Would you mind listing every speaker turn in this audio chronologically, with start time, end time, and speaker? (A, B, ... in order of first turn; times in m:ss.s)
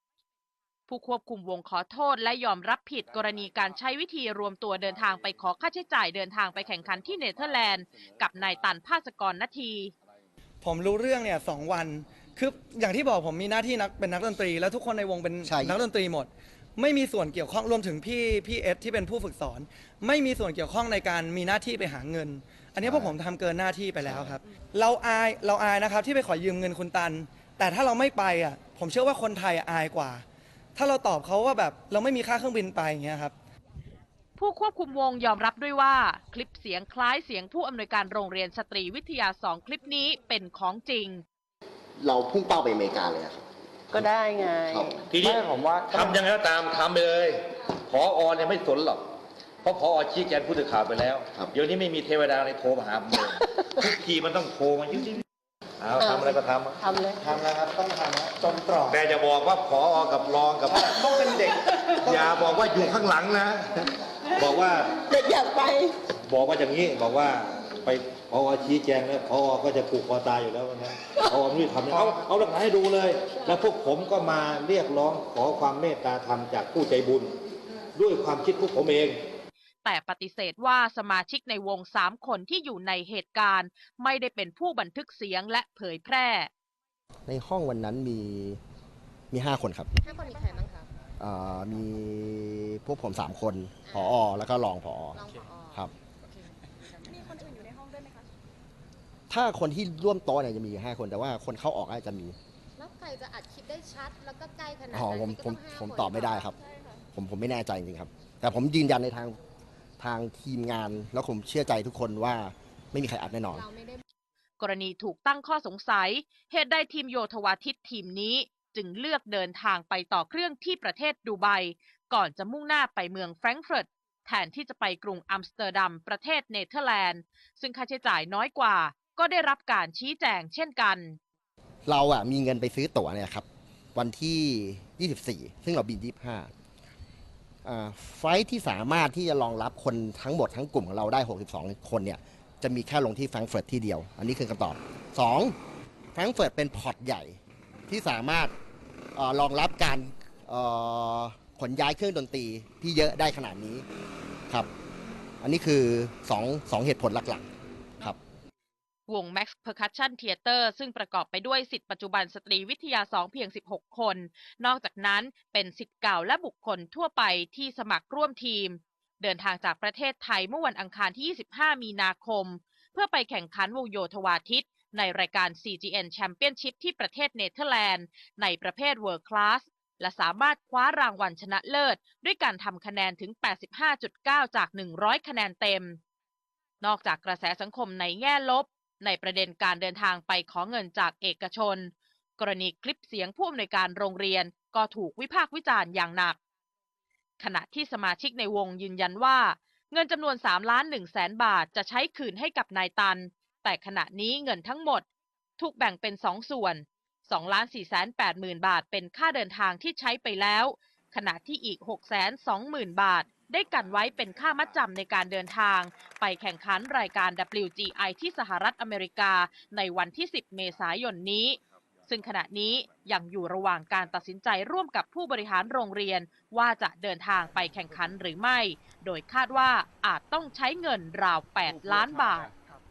0:00.9-0:09.9 A
0:10.6-0:30.2 B
0:15.4-0:15.8 C
0:22.8-0:23.1 C
0:24.0-0:24.4 C
0:30.8-0:33.3 B
0:34.4-0:41.2 A
0:42.0-0:44.1 C
0:43.9-0:46.2 D
0:44.7-0:45.0 C
0:45.1-0:47.4 E
0:47.9-0:49.0 E
0:49.6-0:55.2 E
0:55.8-0:57.7 E
0:56.0-0:57.3 D
0:57.6-0:59.0 B
0:58.9-1:01.4 E
1:00.7-1:01.5 B
1:01.9-1:03.7 E
1:02.0-1:02.6 B
1:04.4-1:05.0 E
1:05.1-1:05.9 D
1:06.3-1:17.3 E
1:18.0-1:19.2 E
1:19.8-1:26.5 A
1:27.3-1:28.6 C
1:29.3-1:29.9 C
1:30.0-1:30.9 F
1:31.2-1:35.9 C
1:33.9-1:34.3 F
1:35.2-1:37.4 F
1:39.3-1:42.4 C
1:42.8-1:46.6 F
1:44.9-1:46.6 C
1:47.1-1:49.4 C
1:50.0-1:53.7 C
1:53.5-1:54.0 F
1:54.6-2:11.2 A
2:11.9-2:16.5 C
2:17.6-2:25.6 C
2:26.2-2:28.5 C
2:29.2-2:33.8 C
2:35.4-2:37.5 C
2:39.1-3:06.0 A
3:06.8-3:16.4 A
3:17.4-3:25.1 A
3:25.6-3:52.5 A